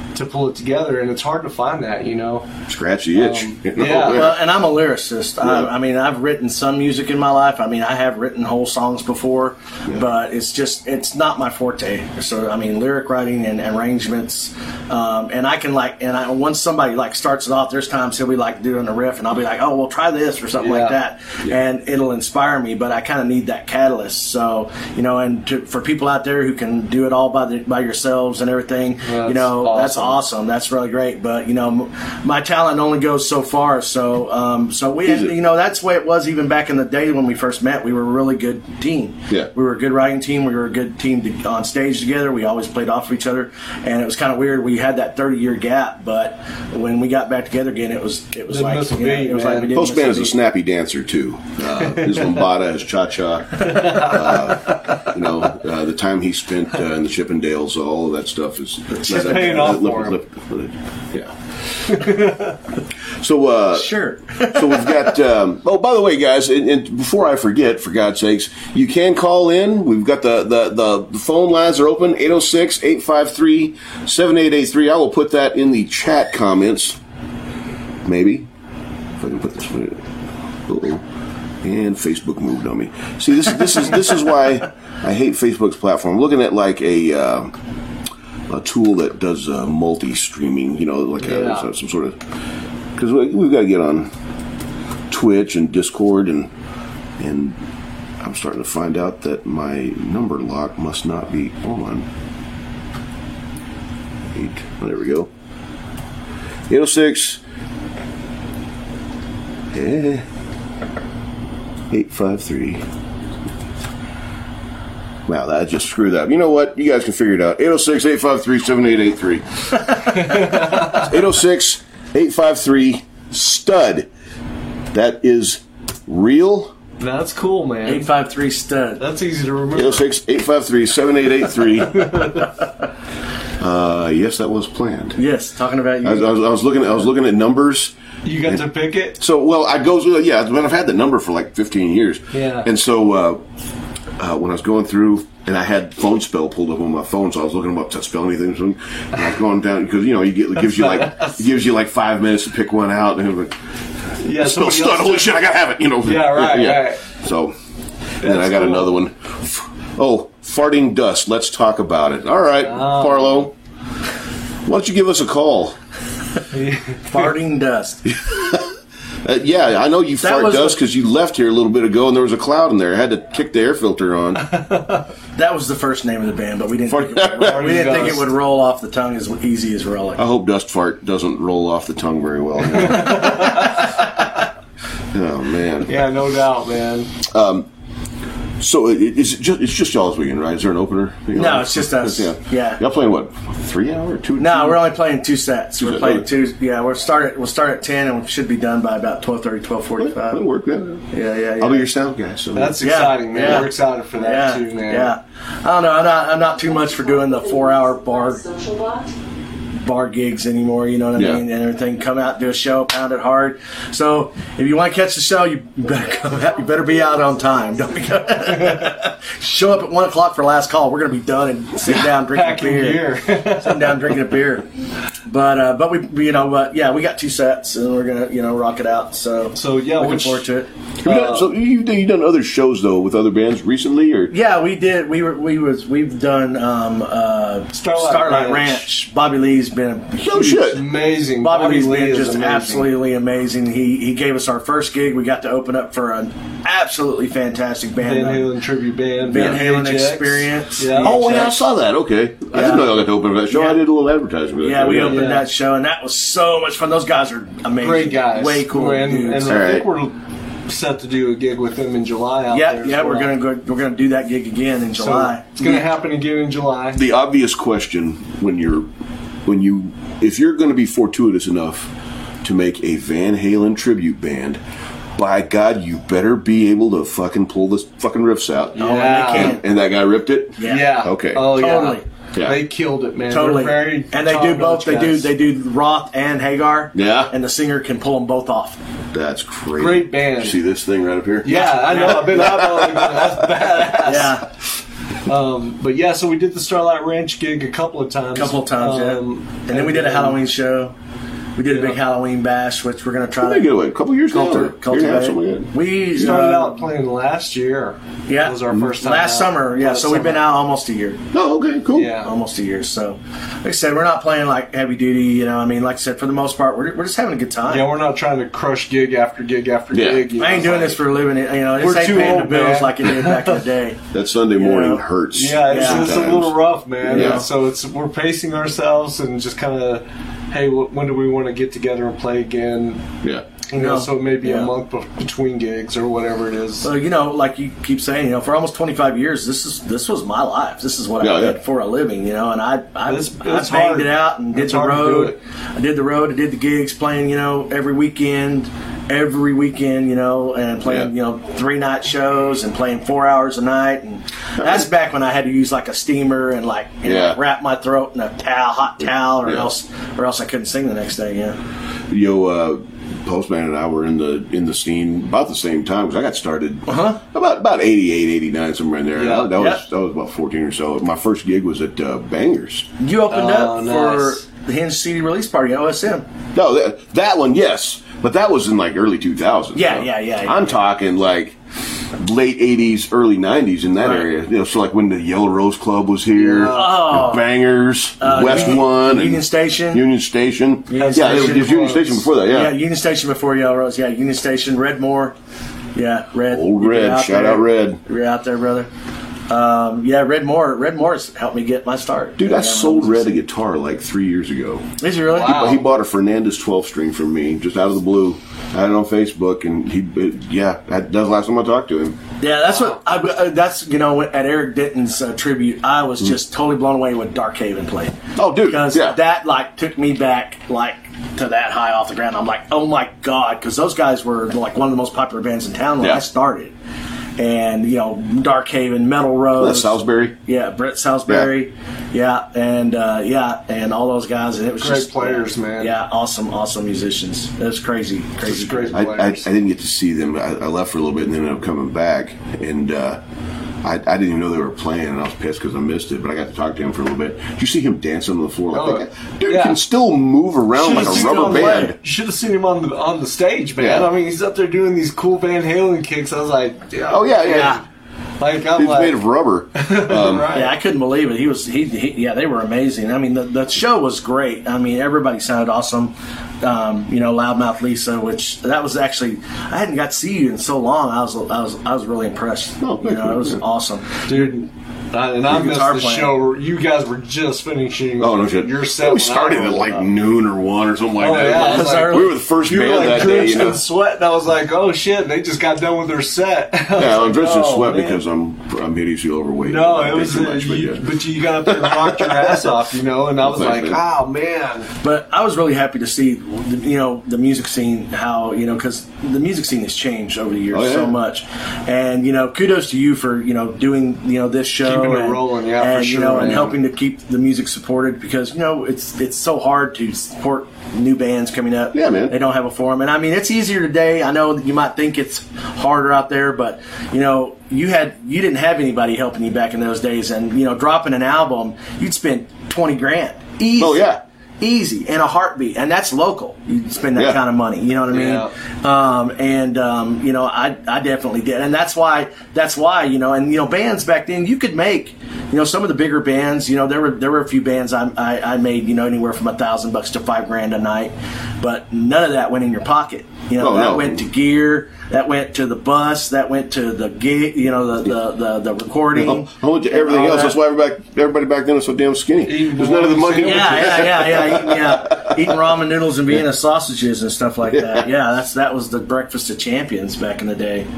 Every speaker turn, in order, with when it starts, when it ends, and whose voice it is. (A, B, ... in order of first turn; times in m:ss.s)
0:00.1-0:02.5 A
0:02.7-0:04.4 B
0:03.2-0:04.4 A
0:03.9-0:50.4 C
0:05.4-0:05.7 B
0:20.6-0:21.0 A
0:29.0-0:30.2 A
0:35.0-0:35.3 B
0:48.5-0:49.8 A
0:49.7-1:01.3 B
0:53.6-0:55.1 A
0:59.0-1:00.2 A
1:01.9-1:02.6 A
1:03.2-1:17.0 B
1:03.7-1:05.1 C
1:18.0-1:18.5 B
1:19.2-1:20.0 B
1:20.7-1:21.0 B
1:21.6-1:27.5 B
1:28.5-1:32.2 B
1:31.2-1:31.7 A
1:33.0-1:34.1 B
1:35.1-1:36.5 B
1:37.2-1:37.6 B
1:38.2-1:42.1 B
1:44.3-1:45.3 B
1:46.7-1:47.4 B
1:49.7-1:50.2 B
1:51.9-1:52.8 B
1:55.3-1:59.4 B
2:00.0-2:01.1 A
2:00.4-2:04.1 B
2:04.9-2:06.8 B
2:07.0-2:08.1 A
2:07.9-2:09.0 C
2:09.0-2:10.1 A
2:09.7-2:12.3 B
2:11.8-2:12.5 A
2:13.6-2:15.2 B
2:15.2-2:16.3 C
2:16.0-2:18.6 B
2:18.2-2:19.2 A
2:19.2-2:23.4 B
2:22.3-2:22.7 A
2:24.2-2:33.6 B
2:30.6-2:31.4 A
2:34.2-2:35.4 A
2:34.3-2:37.6 B
2:36.0-2:37.0 A
2:38.2-2:38.9 A
2:38.2-2:43.5 B
2:42.6-2:43.5 A
2:44.7-2:45.8 B
2:46.5-2:47.3 A
2:47.1-2:48.2 C
2:48.1-2:48.7 B
2:49.2-2:54.5 B
2:50.2-2:50.8 C
2:54.4-2:55.1 A
2:55.4-3:00.2 C
2:56.9-2:57.9 B
2:57.4-2:58.3 A
3:00.2-3:04.0 B
3:02.7-3:04.2 A
3:05.1-3:06.0 B
3:05.9-3:07.1 A
3:07.2-3:07.7 B
3:08.6-3:14.8 B
3:11.4-3:12.8 C
3:14.4-3:20.4 C
3:15.8-3:16.3 B
3:20.0-3:21.1 B
3:21.1-3:21.9 C
3:21.6-3:22.8 B
3:22.6-3:25.1 A
3:22.8-3:28.4 C
3:26.6-3:29.2 D
3:29.8-3:44.7 C
3:31.2-3:31.4 B
3:41.8-3:44.2 A
3:45.3-3:50.7 C
3:49.6-3:50.5 A
3:51.0-3:54.3 B
3:51.0-3:51.5 A
3:54.3-4:00.8 C
3:57.7-3:58.8 A
4:00.2-4:00.8 B
4:00.4-4:02.9 A
4:01.4-4:08.5 C
4:08.0-4:11.4 A
4:09.2-4:11.6 C
4:11.0-4:15.2 B
4:12.5-4:13.8 C
4:14.6-4:19.7 C
4:15.0-4:15.5 A
4:17.8-4:23.4 A
4:19.5-4:19.9 B
4:22.5-4:25.8 C
4:25.0-4:27.0 A
4:27.0-4:28.9 B
4:29.5-4:31.9 B
4:32.4-4:34.6 B
4:35.2-4:41.6 B
4:38.8-4:39.6 A
4:38.8-4:39.6 C
4:40.6-4:42.0 C
4:40.6-4:45.3 A
4:42.3-4:42.6 B
4:43.3-4:48.8 C
4:47.0-4:47.3 B
4:49.1-4:52.9 B
4:49.8-4:50.6 A
4:51.4-4:54.4 A
4:51.5-4:52.6 C
4:53.9-4:54.5 C
4:55.2-5:00.4 A
4:58.4-5:00.9 C
5:01.6-5:03.7 C
5:01.7-5:02.0 A
5:03.4-5:05.7 B
5:04.3-5:06.8 C
5:06.2-5:10.5 A
5:08.3-5:11.2 C
5:11.3-5:12.2 B
5:11.9-5:12.3 A
5:12.2-5:17.9 C
5:17.7-5:21.1 A
5:19.9-5:20.3 B
5:20.4-5:24.0 C
5:21.8-5:23.6 A
5:24.1-5:27.4 B
5:24.6-5:25.0 C
5:25.3-5:33.1 A
5:25.7-5:26.2 C
5:27.0-5:27.5 C
5:33.7-5:36.9 A
5:33.7-5:34.7 C
5:36.8-6:01.6 C
5:41.2-5:41.6 B
5:43.1-5:45.4 A
5:50.8-5:51.1 B
5:54.6-5:54.9 B
5:57.0-5:57.4 B
6:02.1-6:12.9 B
6:06.9-6:07.2 C
6:09.2-6:09.5 A
6:09.6-6:09.8 C
6:13.0-6:16.3 C
6:13.3-6:14.4 A
6:16.5-6:21.6 B
6:19.8-6:20.8 C
6:22.1-6:32.7 B
6:24.0-6:24.3 C
6:26.4-6:27.0 A
6:26.7-6:27.5 C
6:28.2-6:30.0 C
6:30.9-6:35.3 C
6:30.9-6:32.0 A
6:36.0-6:38.9 C
6:36.5-6:38.0 B
6:39.5-6:43.4 C
6:42.4-6:52.2 B
6:45.0-6:45.8 C
6:45.3-6:45.8 A
6:52.4-7:06.7 C
6:58.4-6:59.2 B
7:07.4-7:19.0 C
7:09.6-7:10.4 B
7:14.8-7:15.9 A
7:18.4-7:19.5 A
7:18.9-7:23.2 B
7:23.8-7:32.0 B
7:28.7-7:29.8 A
7:30.8-7:32.0 C
7:30.8-7:37.8 A
7:33.8-7:34.1 B
7:37.1-7:37.8 B
7:37.5-7:37.8 C
7:38.4-7:39.2 A
7:38.7-7:40.5 B
7:39.7-7:40.8 A
7:40.5-7:54.5 C
7:52.8-7:53.6 B
7:54.3-8:00.0 A
7:55.4-7:56.4 C
7:58.2-8:03.8 B
8:01.2-8:08.2 A
8:01.5-8:02.4 C
8:06.9-8:12.7 B
8:09.6-8:14.9 A
8:13.4-8:14.0 B
8:15.0-9:10.6 C
8:20.7-8:21.2 B
8:24.8-8:26.8 A
8:31.9-8:32.4 B
8:43.8-8:44.2 B
8:48.1-8:48.5 A
9:03.6-9:04.2 B
9:09.2-9:15.6 B
9:12.4-9:14.1 A
9:13.4-9:20.9 C
9:17.7-9:18.1 B